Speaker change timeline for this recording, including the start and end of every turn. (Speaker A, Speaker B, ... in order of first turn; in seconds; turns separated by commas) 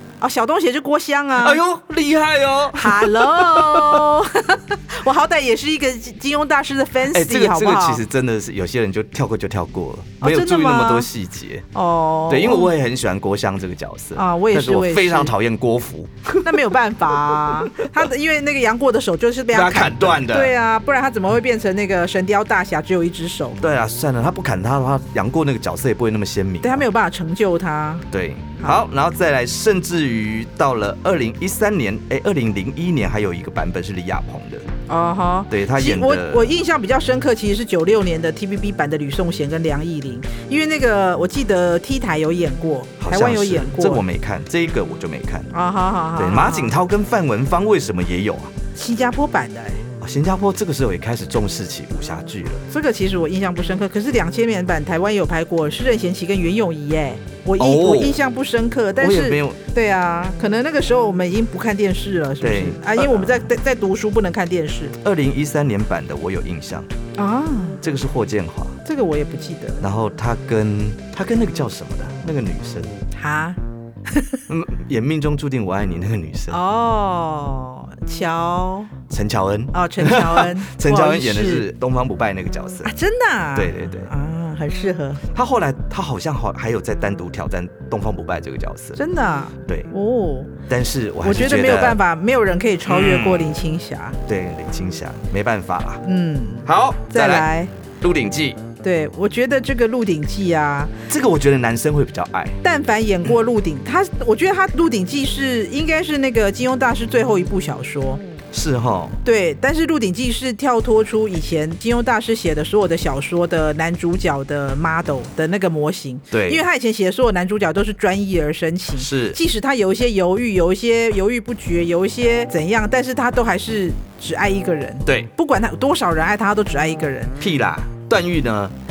Speaker A: 0.2-1.6, Speaker B: 1.4-4.1, Speaker A: 2.7-8.0, Speaker B: 7.1-11.6, Speaker A: 10.2-11.1, Speaker A: 11.7-12.7, Speaker B: 12.3-16.7, Speaker A: 14.2-15.3, Speaker A: 16.4-23.6, Speaker B: 17.3-17.8, Speaker B: 19.5-20.5, Speaker B: 23.6-26.8, Speaker A: 26.6-28.1, Speaker B: 28.1-34.6, Speaker A: 34.9-44.0, Speaker B: 35.5-36.5, Speaker B: 43.0-45.5, Speaker A: 45.5-46.8, Speaker B: 46.2-48.5, Speaker A: 48.7-49.8, Speaker B: 50.0-52.6, Speaker A: 52.7-64.9, Speaker B: 57.6-58.2, Speaker B: 59.0-59.6, Speaker B: 62.4-63.5, Speaker B: 65.0-66.9, Speaker A: 67.2-67.8, Speaker B: 67.8-68.8, Speaker A: 68.8-69.8, Speaker B: 69.8-72.9, Speaker A: 73.2-74.4, Speaker B: 74.5-76.6, Speaker A: 76.5-78.9, Speaker B: 79.1-82.9, Speaker A: 79.7-81.7, Speaker A: 82.8-85.2, Speaker B: 83.5-84.1, Speaker B: 85.3-89.0, Speaker A: 89.0-90.5, Speaker B: 90.7-92.0, Speaker A: 91.2-94.2, Speaker B: 92.8-93.6, Speaker B: 94.3-96.0, Speaker A: 96.0-97.7, Speaker B: 96.7-97.5, Speaker B: 98.0-98.6, Speaker A: 98.8-100.9, Speaker B: 101.1-102.6, Speaker A: 102.6-108.2, Speaker B: 108.5-109.2, Speaker A: 109.2-127.4, Speaker B: 116.3-116.6, Speaker B: 119.0-119.4, Speaker B: 127.4-128.7